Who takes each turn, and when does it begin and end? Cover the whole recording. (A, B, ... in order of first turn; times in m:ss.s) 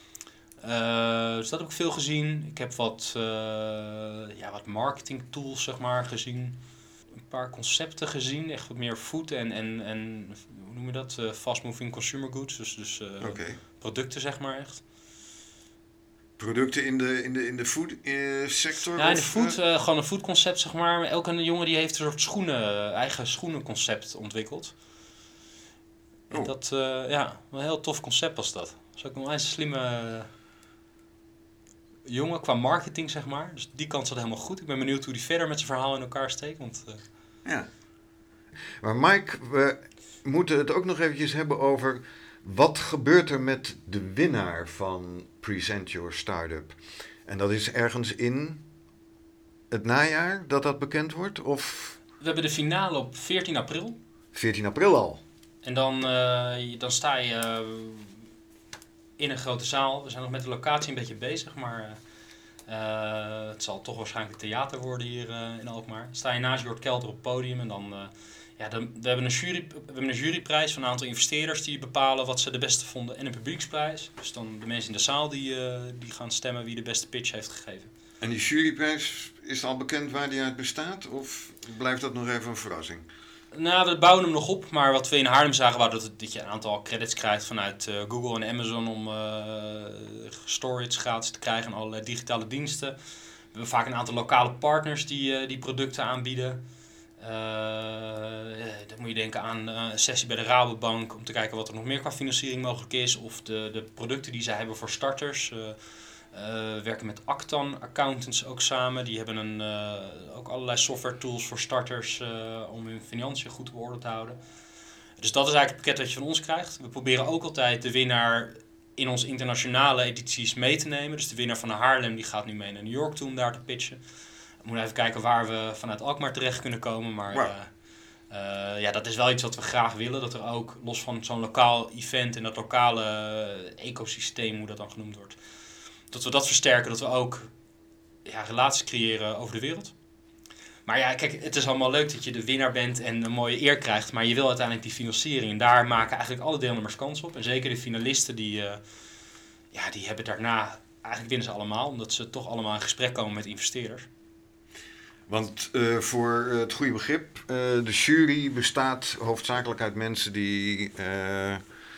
0:00.6-0:06.6 A
0:07.3-0:14.8 A
0:13.2-0:13.6 B
0:16.4-0:19.6 B
0:19.0-0:24.7 A
0:26.3-0:30.3 A
0:32.0-0:37.0 A
0:38.8-0:48.6 B
0:49.7-0:52.0 B
0:52.2-0:54.0 A
0:54.3-0:55.2 B
0:55.6-0:58.2 A
0:59.2-1:02.0 A
1:02.7-1:17.9 A
1:18.2-1:23.0 B
1:23.5-1:33.0 A
1:33.5-1:36.6 A
1:37.2-1:45.8 A
1:46.3-1:54.4 A
1:55.2-2:04.0 A
2:04.6-2:07.7 A
2:08.3-2:15.4 A
2:16.1-2:17.5 A
2:18.2-2:19.9 A
2:20.8-2:28.8 A
2:29.7-2:34.1 A
2:35.3-2:41.6 B